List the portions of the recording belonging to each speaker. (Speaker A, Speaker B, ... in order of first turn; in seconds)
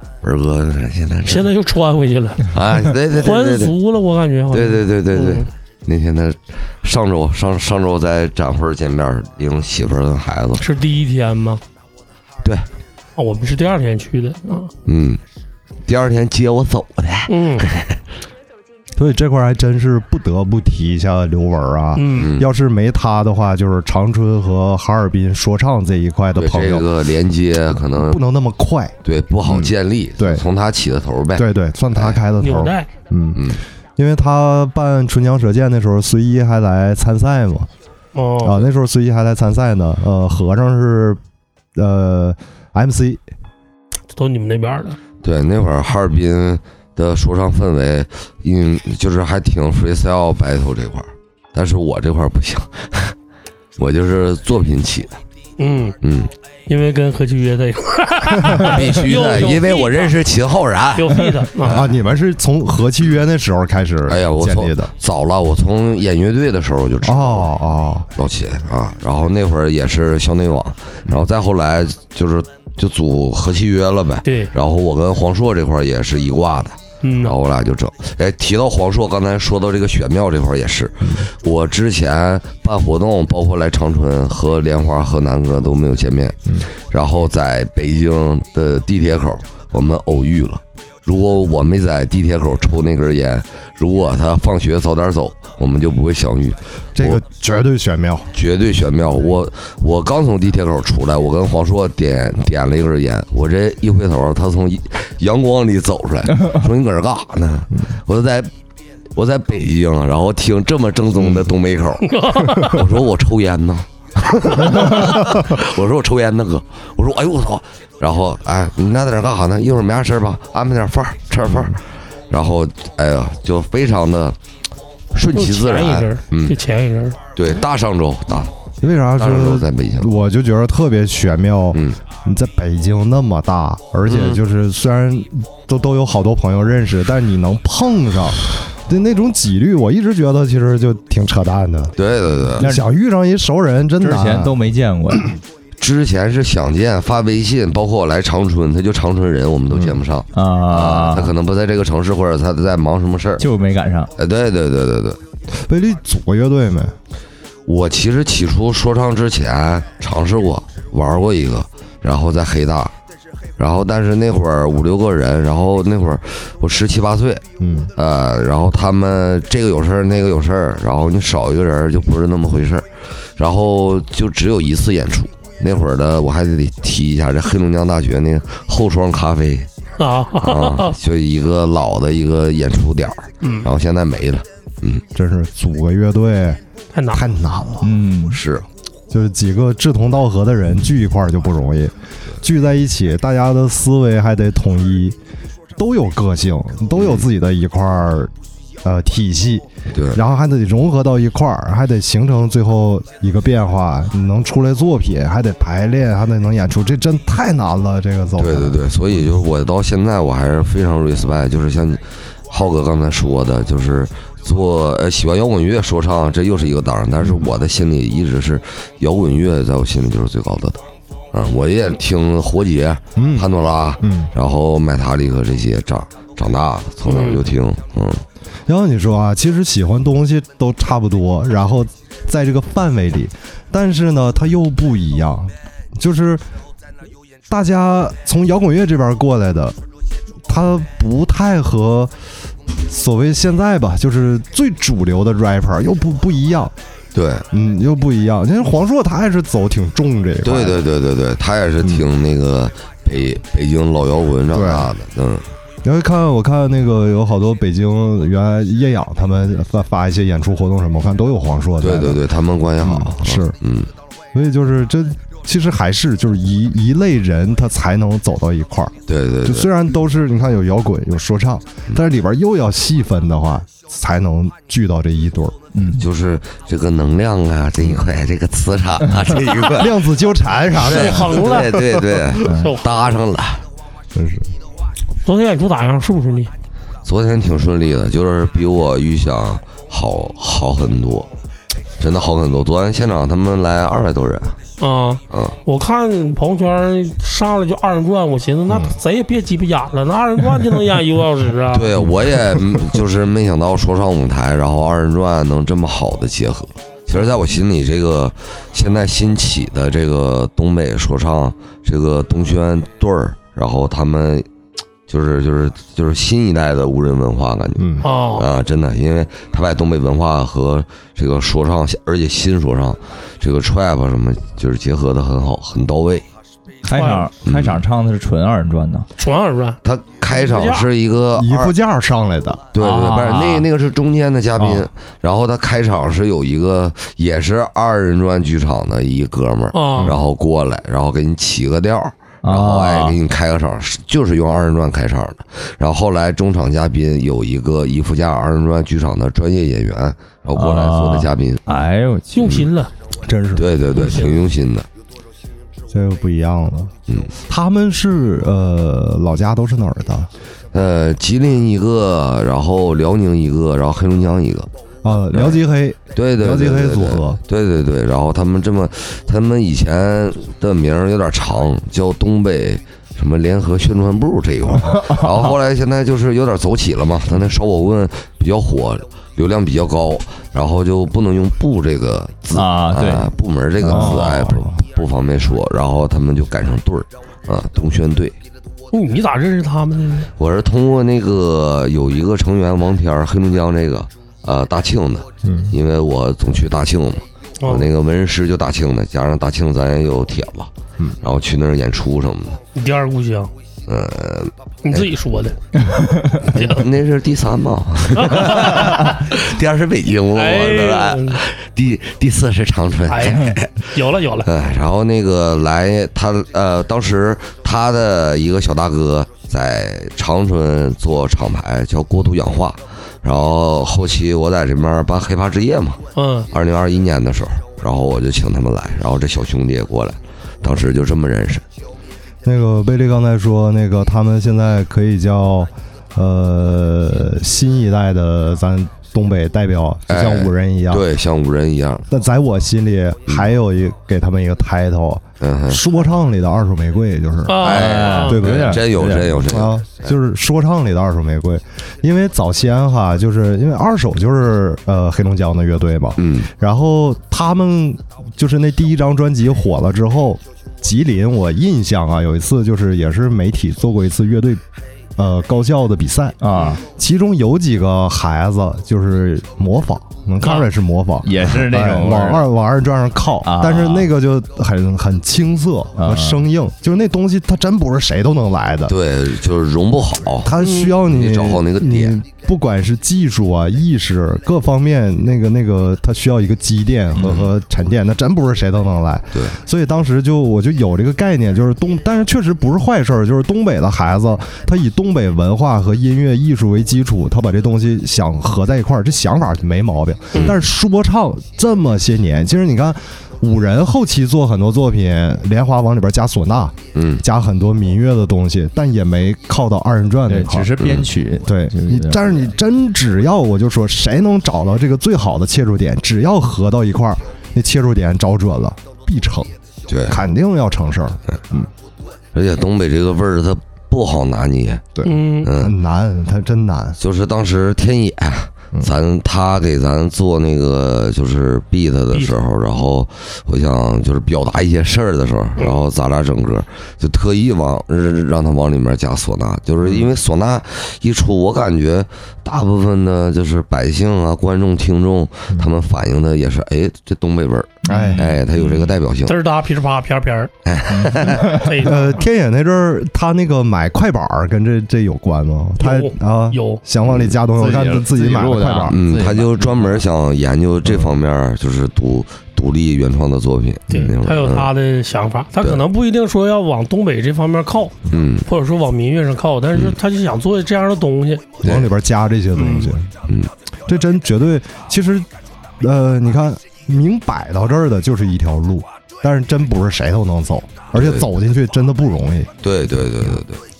Speaker A: 0.2-1.6, 2.5-3.8, 4.5-10.8, 14.8-15.2, 15.9-17.9, 22.1-22.5, 26.4-28.2, 29.0-32.2, 33.3-33.6, 45.2-53.1, 53.8-55.2, 56.0-56.3, 58.5-61.7, 64.1-67.5, 68.2-97.2, 98.3-108.5, 109.2-124.4, 125.1-126.6, 127.3-128.5, 129.2-130.1, 131.7-132.0, 134.1-134.4, 142.0-142.7, 145.8-153.4, 154.2-155.2, 157.7-162.9, 163.6-167.4, 167.9-179.7, 180.4-185.0, 188.3-188.7, 196.9-197.3, 199.9-200.2, 208.4-228.2, 247.1-247.4, 250.4-255.5, 261.8-263.9, 269.1-269.7, 275.9-280.1, 280.7-283.6, 287.0-291.3, 292.0-294.6, 295.3-295.6, 301.7-314.5, 315.1-326.2, 327.4-327.8, 329.8-331.7, 332.7-351.6, 353.6-354.9, 360.7-364.7, 365.3-365.6, 366.1-388.4, 390.4-400.7, 401.2-402.6, 403.9-405.1, 406.4-413.9, 414.4-431.6, 440.1-442.1, 445.4-445.8, 447.6-450.1, 456.2-456.5, 478.9-480.5, 481.0-482.2, 500.3-500.6, 506.9-507.2, 510.8-511.1, 519.9-520.2, 522.3-524.9, 525.4-525.7, 527.0-549.4, 550.6-551.5, 557.0-557.3, 558.9-564.7, 568.1-568.5, 571.6-571.9, 580.9-581.3, 582.6-583.6
Speaker B: 1.2-2.5, 3.0-5.5, 10.6-11.6, 13.2-14.7, 17.3-17.7, 21.9-22.3, 32.4-32.9, 38.1-38.6, 44.1-45.0, 55.6-56.0, 56.7-60.2, 60.9-61.9, 74.2-74.5, 77.0-77.3, 112.0-112.8, 125.3-127.2, 180.0-180.9, 183.4-183.7, 186.9-187.2, 227.1-227.4, 280.8-281.8, 282.4-282.9, 285.2-286.5, 294.8-301.9, 318.0-318.5, 326.9-327.3, 329.2-330.9, 339.7-340.1, 352.3-352.9, 353.9-354.4, 388.9-390.3, 397.6-397.9, 402.7-403.5, 404.8-405.6, 406.5-406.8, 408.1-409.2, 410.3-411.4, 413.1-414.5, 426.1-426.5, 447.4-448.4, 470.4-470.7, 480.6-480.9, 525.0-525.5, 549.2-550.5, 551.4-552.2, 555.8-556.8, 563.9-571.5, 572.5-572.9
Speaker C: 18.9-26.9, 27.9-30.4, 31.3-37.7, 38.4-41.2, 41.8-43.2, 61.6-64.9, 67.0-68.1, 96.9-98.3, 121.5-121.8, 128.8-141.9, 142.6-144.6, 149.7-150.0, 155.5-156.9, 167.6-167.9, 185.1-186.6, 187.1-187.9, 189.1-195.2, 195.8-208.8, 217.2-217.5, 223.2-223.5, 224.0-224.3, 228.7-236.4, 237.5-239.8, 240.4-242.1, 242.7-246.7, 247.5-250.8, 254.5-254.9, 255.8-262.2, 262.8-263.6, 264.3-275.6, 279.6-282.2, 284.1-284.5, 298.7-298.9, 317.8-318.1, 331.4-332.7, 353.2-353.7, 355.9-356.9, 357.5-360.3, 365.0-367.4, 383.8-384.8, 395.4-395.7, 432.4-441.1, 442.1-447.7, 448.2-464.6, 465.2-478.9, 480.4-510.8, 511.4-519.5, 520.1-521.7, 524.9-527.0, 547.9-548.2, 551.8-559.0, 571.6-573.1, 573.9-575.3, 575.8-582.5
Speaker D: 142.6-142.8, 144.0-145.3, 150.3-151.3, 153.4-154.1, 187.8-188.4, 275.7-276.0, 282.4-282.7, 326.8-329.1, 332.8-333.6, 342.4-343.2, 350.6-352.6, 374.9-375.2, 382.5-383.3, 383.8-384.2, 405.9-406.4, 447.7-449.4, 466.4-466.8, 471.2-472.5, 473.4-474.1, 476.0-476.4, 510.3-512.3, 547.9-548.8, 550.9-551.7, 557.5-560.0